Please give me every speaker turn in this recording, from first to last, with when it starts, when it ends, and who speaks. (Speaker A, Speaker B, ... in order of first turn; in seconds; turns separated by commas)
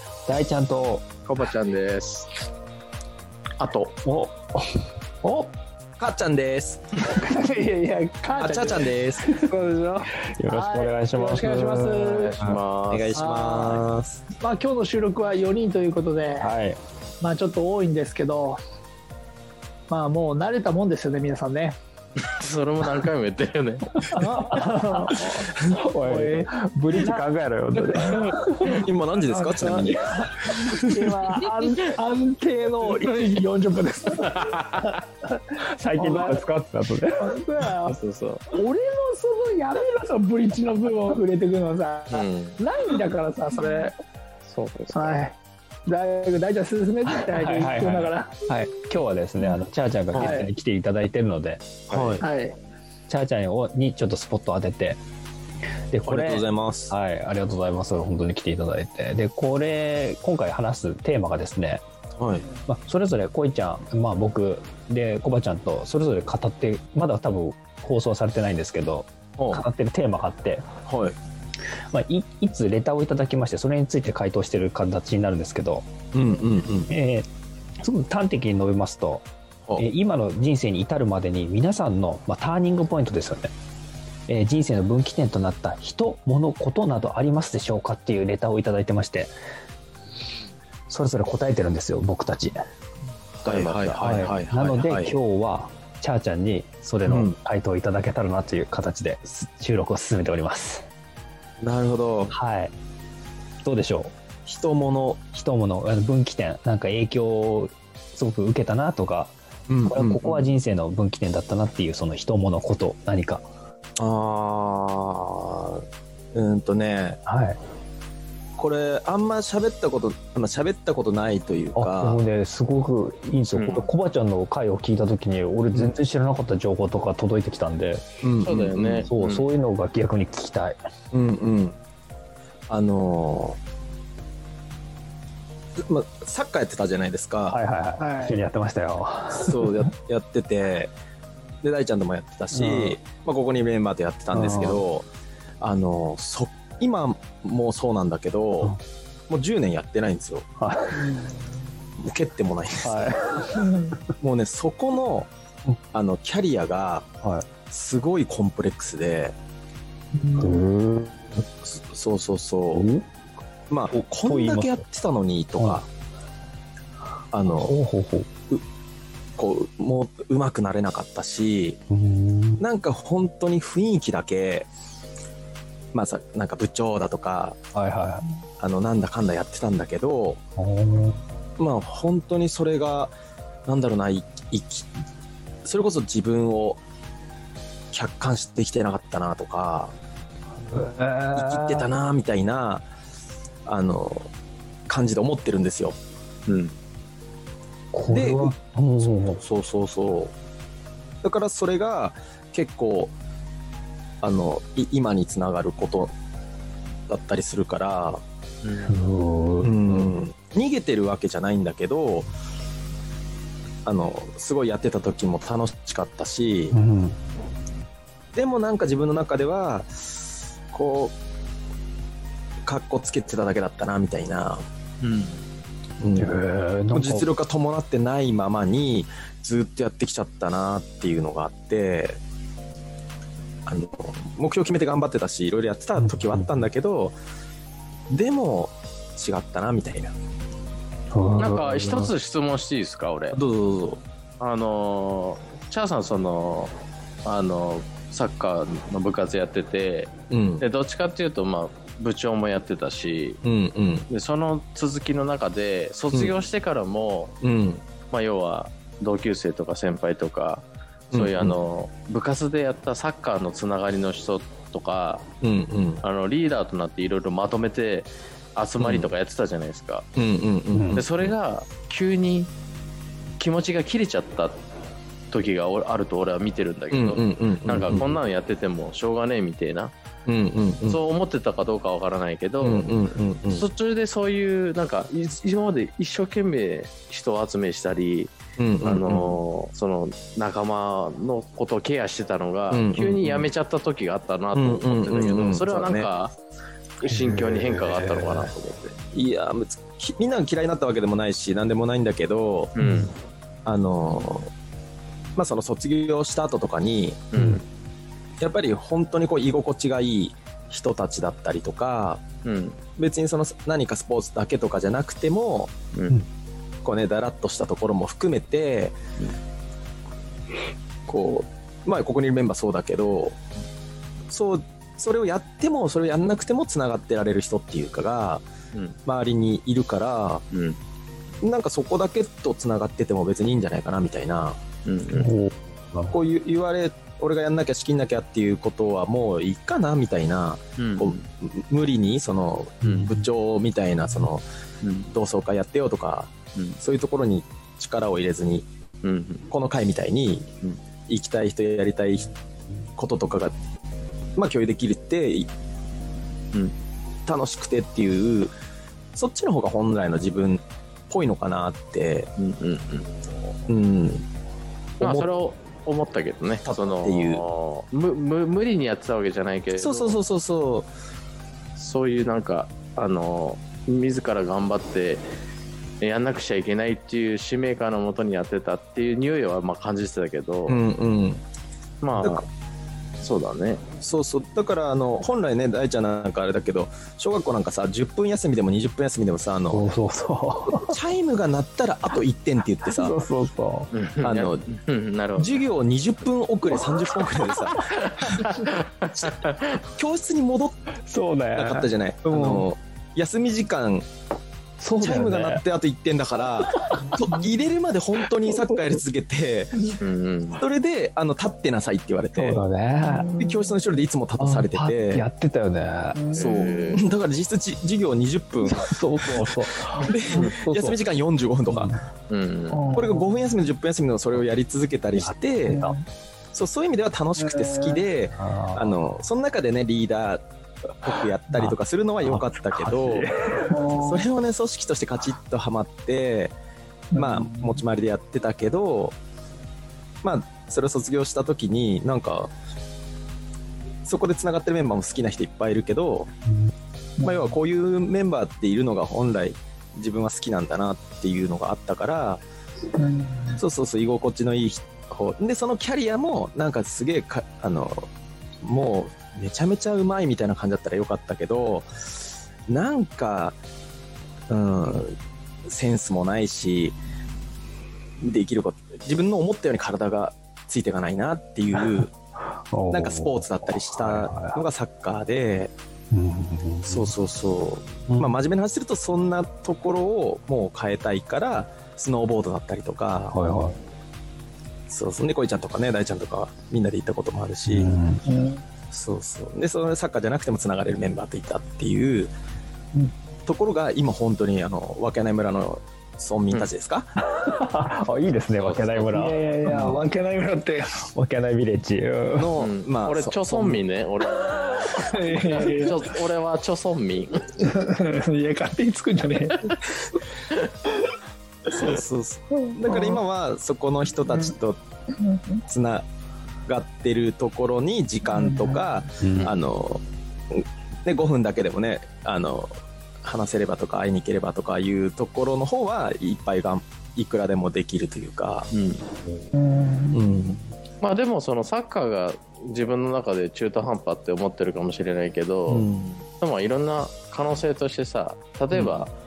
Speaker A: 0.3-1.1, Speaker B: 1.2-2.3, Speaker B: 3.6-4.0, Speaker A: 4.0-4.6, Speaker C: 5.2-5.5, Speaker D: 6.0-6.8, Speaker C: 7.0-12.4, Speaker D: 8.4-9.3, Speaker A: 10.4-12.6, Speaker B: 12.2-13.8, Speaker D: 12.9-14.2, Speaker C: 13.1-13.8, Speaker C: 14.3-16.5, Speaker A: 16.4-16.8, Speaker C: 17.2-18.6, Speaker C: 19.9-21.8, Speaker B: 22.2-24.2, Speaker C: 24.1-27.2, Speaker A: 24.2-28.7, Speaker B: 27.8-28.9, Speaker C: 28.0-28.3, Speaker D: 28.6-31.1, Speaker C: 29.2-35.4, Speaker B: 31.4-31.9, Speaker B: 32.8-33.4, Speaker B: 34.2-35.0, Speaker A: 35.6-37.3, Speaker C: 36.0-36.4, Speaker C: 37.1-38.0, Speaker B: 37.9-38.5, Speaker C: 38.5-44.0, Speaker B: 42.1-42.6, Speaker B: 44.5-45.2, Speaker C: 44.9-45.4, Speaker C: 45.9-48.4, Speaker A: 47.1-51.7, Speaker C: 50.1-50.5, Speaker B: 51.9-52.3, Speaker D: 51.9-52.2, Speaker C: 52.2-52.6, Speaker A: 53.1-55.0, Speaker A: 55.9-61.8, Speaker D: 56.1-57.0, Speaker D: 62.2-62.5, Speaker A: 62.7-70.7, Speaker D: 69.4-69.6, Speaker D: 70.9-71.2, Speaker A: 71.9-75.9, Speaker D: 76.1-76.9, Speaker A: 76.9-77.3, Speaker A: 77.8-83.5, Speaker A: 84.3-89.3, Speaker A: 90.9-92.6, Speaker D: 93.4-95.2, Speaker B: 93.5-94.1, Speaker A: 94.0-100.9, Speaker D: 97.1-97.4, Speaker D: 101.6-102.3, Speaker A: 102.3-102.7, Speaker A: 103.6-104.1, Speaker D: 104.5-105.2, Speaker A: 105.3-109.3, Speaker D: 109.7-110.4, Speaker A: 109.9-113.5, Speaker D: 114.0-117.2, Speaker A: 117.3-117.6, Speaker D: 118.6-122.2, Speaker A: 121.8-128.1, Speaker B: 123.5-123.9, Speaker D: 128.2-129.1, Speaker B: 128.4-129.4, Speaker A: 129.0-130.8, Speaker D: 131.1-131.8, Speaker D: 132.7-133.6, Speaker D: 135.8-137.6, Speaker A: 137.5-139.6, Speaker C: 138.0-138.3, Speaker D: 139.3-140.9, Speaker D: 141.6-145.1, Speaker A: 142.5-143.0, Speaker A: 144.3-144.8, Speaker D: 145.6-148.7, Speaker D: 149.3-150.5, Speaker A: 150.6-151.0, Speaker D: 152.0-153.1, Speaker A: 152.8-153.8, Speaker C: 153.6-153.9, Speaker D: 154.2-155.3, Speaker D: 155.9-157.1, Speaker D: 157.7-159.3, Speaker C: 160.2-160.6, Speaker A: 160.4-161.4, Speaker D: 161.6-162.8, Speaker A: 162.7-163.1, Speaker D: 163.7-165.9, Speaker A: 163.9-164.8, Speaker D: 167.3-167.7, Speaker A: 167.5-168.3, Speaker D: 169.4-171.8, Speaker A: 171.9-172.6, Speaker D: 172.6-174.7, Speaker D: 175.9-177.6, Speaker A: 177.8-178.2, Speaker D: 178.6-180.4, Speaker A: 180.6-181.2, Speaker D: 181.6-183.2, Speaker D: 183.7-184.9, Speaker D: 185.7-186.8, Speaker D: 187.9-189.9, Speaker A: 190.7-191.9, Speaker D: 191.3-192.9, Speaker D: 193.7-194.3, Speaker D: 194.9-196.0, Speaker B: 196.5-196.7, Speaker A: 197.9-199.4, Speaker D: 198.1-200.3, Speaker D: 201.2-203.1, Speaker D: 204.2-206.1, Speaker D: 207.1-208.2, Speaker B: 208.6-209.0, Speaker A: 208.8-209.8, Speaker D: 209.6-212.3, Speaker D: 213.9-216.8, Speaker A: 216.7-217.2, Speaker D: 218.3-221.2, Speaker D: 222.7-224.6, Speaker B: 225.0-225.4, Speaker D: 226.0-226.3, Speaker A: 226.2-227.3, Speaker D: 226.9-232.2, Speaker D: 233.7-237.2, Speaker A: 236.0-236.7, Speaker D: 238.1-240.1, Speaker A: 241.1-242.1, Speaker B: 241.4-243.4, Speaker D: 243.3-244.0, Speaker B: 244.4-246.7, Speaker B: 247.2-253.4, Speaker D: 250.3-250.7, Speaker D: 253.4-254.1, Speaker B: 254.1-257.3, Speaker D: 257.4-257.8, Speaker B: 258.1-265.3, Speaker D: 261.1-261.6, Speaker D: 265.4-266.0, Speaker B: 266.0-270.1, Speaker D: 268.8-269.1, Speaker D: 270.2-271.3, Speaker A: 270.7-271.1, Speaker B: 270.9-272.5, Speaker B: 273.4-274.6, Speaker B: 275.3-279.9, Speaker D: 276.9-278.2, Speaker D: 280.3-281.0, Speaker B: 280.8-296.3, Speaker D: 282.6-283.7, Speaker D: 288.6-289.4, Speaker D: 292.7-293.5, Speaker D: 294.5-296.1, Speaker B: 297.0-299.0, Speaker A: 297.1-298.4, Speaker D: 299.1-302.7, Speaker B: 302.8-303.1, Speaker A: 302.8-303.1, Speaker D: 303.6-304.5, Speaker D: 305.4-307.2, Speaker B: 307.3-307.6, Speaker D: 308.4-312.2, Speaker B: 312.4-312.8, Speaker D: 313.0-315.8, Speaker B: 315.9-316.2, Speaker D: 316.8-319.0, Speaker D: 321.1-323.4, Speaker D: 324.3-328.4, Speaker B: 328.7-329.0, Speaker D: 329.1-330.4, Speaker B: 330.5-330.8, Speaker D: 331.4-334.6, Speaker B: 334.9-335.3, Speaker A: 335.1-336.1, Speaker D: 336.1-344.4, Speaker B: 340.8-341.2, Speaker B: 342.8-343.1, Speaker A: 342.8-343.1, Speaker B: 344.8-345.1, Speaker D: 345.1-348.7, Speaker B: 349.0-349.5, Speaker D: 349.5-350.5, Speaker D: 351.1-352.3, Speaker D: 353.0-353.5, Speaker D: 354.4-355.5, Speaker D: 357.3-358.5, Speaker D: 359.2-362.3, Speaker B: 362.4-363.1, Speaker D: 363.7-364.2, Speaker D: 365.0-365.3, Speaker B: 365.0-370.2, Speaker D: 366.6-367.4, Speaker D: 369.7-370.9, Speaker B: 371.8-375.2, Speaker B: 376.0-380.8, Speaker D: 380.7-381.4, Speaker B: 382.0-382.5, Speaker B: 383.2-383.8, Speaker D: 384.0-389.9, Speaker A: 389.7-390.9, Speaker D: 390.8-393.2, Speaker A: 392.9-393.9, Speaker B: 393.9-395.7, Speaker D: 394.2-394.7, Speaker D: 395.4-397.8, Speaker B: 397.6-399.8, Speaker D: 399.9-400.8, Speaker A: 401.1-402.7, Speaker D: 401.5-404.1, Speaker A: 404.8-405.6, Speaker D: 405.0-409.9, Speaker B: 410.0-410.6, Speaker D: 410.6-412.6, Speaker A: 412.4-413.4, Speaker C: 413.0-413.7, Speaker D: 413.4-415.2, Speaker A: 414.4-416.2, Speaker C: 416.1-417.0, Speaker B: 416.3-417.0, Speaker D: 416.4-419.5, Speaker A: 418.7-421.0, Speaker C: 420.0-420.5, Speaker D: 420.1-421.9, Speaker A: 421.7-422.0, Speaker B: 422.3-422.9, Speaker C: 422.7-423.4, Speaker D: 422.9-425.8, Speaker A: 425.1-426.0, Speaker C: 425.7-426.0, Speaker D: 426.5-430.4, Speaker C: 427.4-428.1, Speaker A: 428.4-429.0, Speaker D: 431.0-433.3, Speaker A: 431.5-433.9, Speaker C: 433.7-434.2, Speaker D: 433.9-436.6, Speaker C: 437.1-437.8, Speaker D: 437.2-439.1, Speaker D: 440.2-442.5, Speaker D: 444.1-446.3, Speaker C: 447.2-447.6, Speaker D: 447.2-452.4, Speaker C: 453.0-453.6, Speaker D: 453.6-458.1, Speaker D: 458.6-461.9, Speaker D: 462.7-463.6, Speaker D: 464.5-465.1, Speaker D: 465.7-467.0, Speaker D: 468.2-472.1, Speaker A: 471.8-472.0, Speaker A: 472.7-474.6, Speaker D: 472.9-475.7, Speaker A: 476.1-477.1, Speaker D: 476.9-483.4, Speaker A: 483.3-483.8, Speaker D: 484.9-487.9, Speaker A: 487.7-488.2, Speaker C: 488.3-488.6, Speaker D: 488.9-492.3, Speaker D: 493.5-497.2, Speaker A: 497.3-500.0, Speaker B: 498.5-499.3, Speaker C: 499.1-501.1, Speaker A: 501.1-502.5, Speaker D: 502.4-503.8, Speaker B: 502.6-507.4, Speaker C: 504.5-506.1, Speaker C: 507.6-510.1, Speaker D: 511.7-514.8, Speaker C: 512.6-513.2, Speaker C: 514.3-514.5, Speaker C: 515.2-515.6, Speaker D: 515.7-516.0, Speaker D: 516.7-528.7, Speaker C: 518.3-518.9, Speaker A: 519.2-519.5, Speaker B: 528.7-529.1, Speaker C: 529.5-530.3, Speaker D: 530.1-530.6, Speaker B: 531.0-539.1, Speaker D: 535.7-536.2